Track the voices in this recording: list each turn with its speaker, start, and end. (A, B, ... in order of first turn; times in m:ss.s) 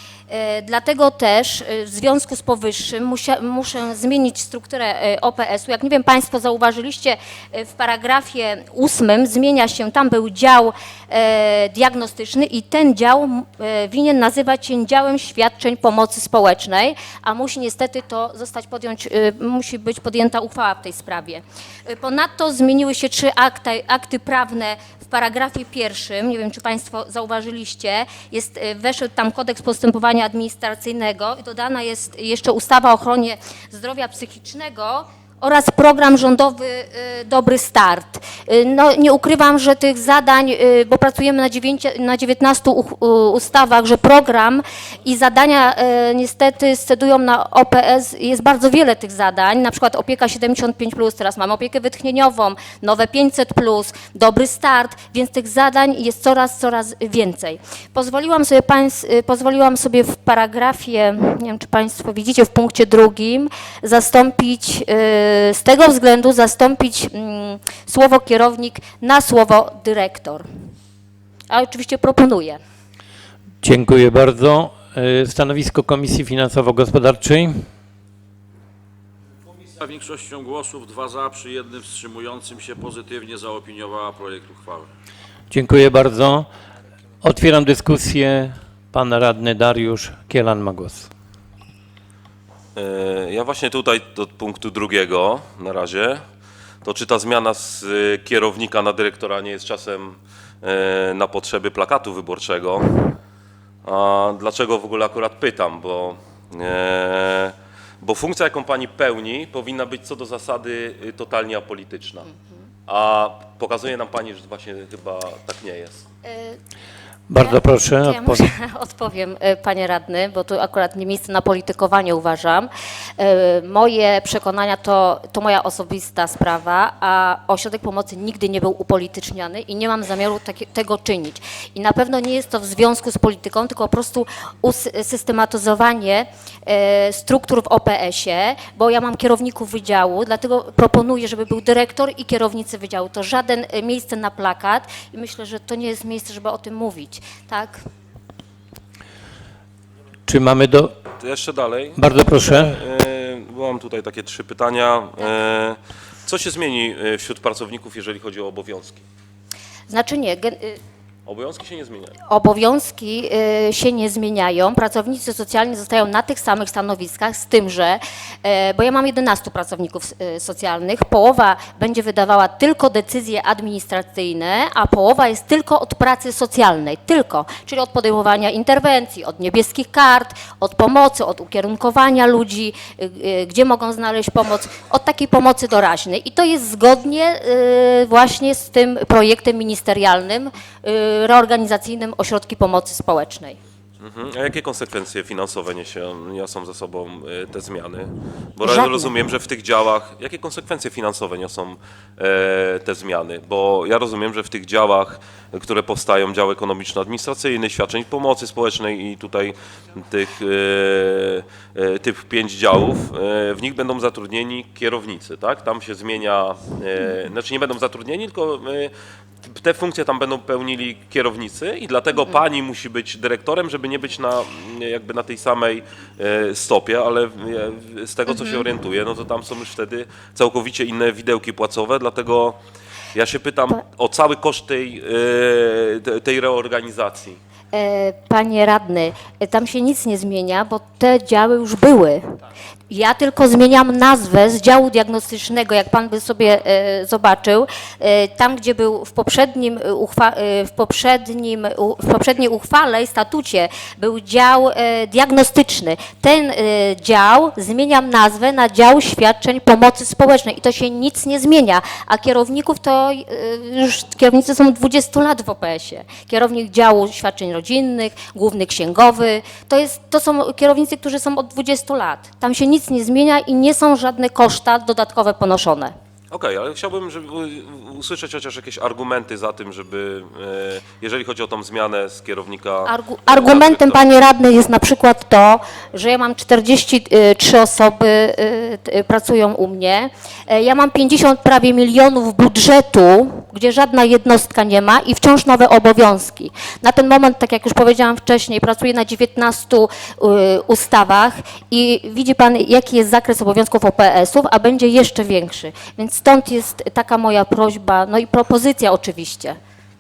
0:00.3-1:10.4 A
1:11.5-1:12.6 A
1:13.6-1:17.7 B
1:19.8-1:24.9 C
1:25.5-1:26.5 B
1:27.2-1:31.1 B
1:32.8-1:36.2 D
1:36.8-1:43.2 D
1:43.8-1:52.3 D
1:52.9-1:56.0 D
1:56.2-1:56.6 A
1:57.3-1:58.4 B
1:57.4-2:27.8 A
2:30.3-2:30.9 B
2:31.2-2:39.0 D
2:32.0-2:32.8 B
2:39.9-2:40.8 A
2:41.3-2:42.2 D
2:42.3-3:13.6 A
3:14.0-3:52.6 D
3:18.7-3:19.0 A
3:48.3-3:48.6 A
3:53.1-3:57.4 D
3:57.7-4:02.4 A
4:02.9-4:35.9 A
4:36.3-4:44.0 D
4:42.8-5:09.6 A